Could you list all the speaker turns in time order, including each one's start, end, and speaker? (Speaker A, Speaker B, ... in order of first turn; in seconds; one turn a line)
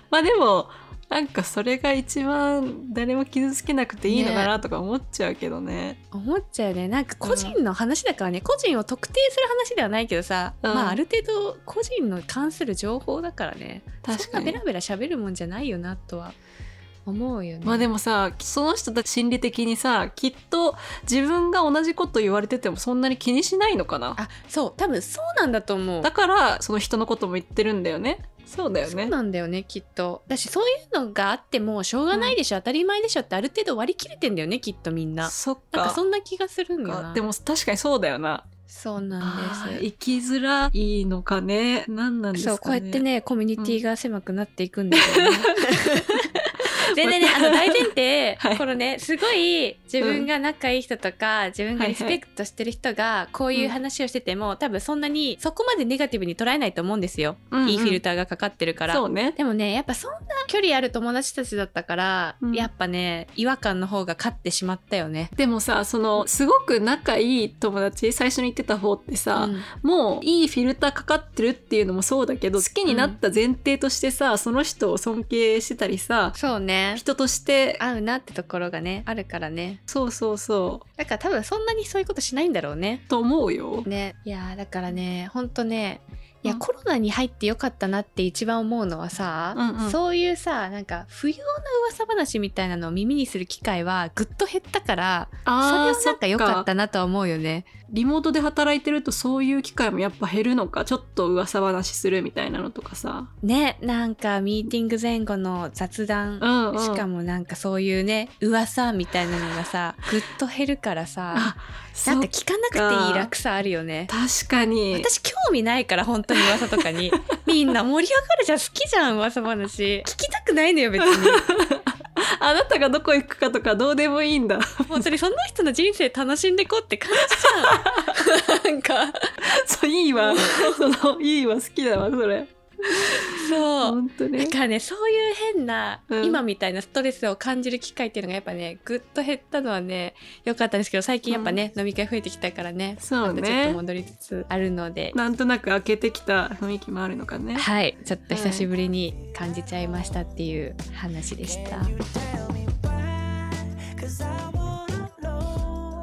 Speaker A: 0.1-6.0
Speaker B: 4.1-4.5
Speaker B: 6.1-16.4
Speaker A: 7.2-7.6
Speaker A: 10.6-11.0
Speaker A: 14.0-14.6
Speaker B: 17.1-17.9
Speaker A: 17.6-24.2
Speaker B: 24.1-26.1
Speaker A: 26.0-29.1
Speaker B: 28.8-37.2
Speaker A: 32.1-32.4
Speaker A: 35.2-36.0
Speaker A: 36.8-38.5
Speaker B: 38.7-39.8
Speaker A: 39.2-43.0
Speaker B: 42.3-65.3
Speaker A: 44.9-46.3
Speaker A: 46.9-48.6
Speaker A: 50.0-50.3
Speaker A: 51.8-52.2
Speaker A: 57.5-58.0
Speaker A: 58.9-59.4
Speaker A: 62.4-62.7
Speaker A: 65.4-76.4
Speaker B: 69.3-69.7
Speaker B: 72.8-73.2
Speaker B: 76.3-77.0
Speaker A: 76.9-77.8
Speaker B: 77.8-79.8
Speaker A: 79.9-80.8
Speaker B: 81.0-83.0
Speaker A: 83.1-83.9
Speaker B: 83.8-97.7
Speaker A: 89.5-90.0
Speaker A: 95.5-96.7
Speaker A: 97.9-103.3
Speaker B: 103.4-111.5
Speaker A: 106.4-107.0
Speaker A: 111.3-113.3
Speaker B: 112.0-114.1
Speaker A: 114.1-115.1
Speaker B: 114.9-121.4
Speaker A: 116.3-117.2
Speaker A: 121.0-125.1
Speaker B: 124.9-129.3
Speaker A: 127.1-128.2
Speaker A: 129.4-134.5
Speaker B: 130.2-130.9
Speaker B: 132.9-145.2
Speaker A: 136.1-136.4
Speaker A: 141.3-141.6
Speaker A: 143.0-143.8
Speaker A: 145.1-147.7
Speaker B: 147.5-152.0
Speaker A: 148.3-148.7
Speaker A: 154.4-155.1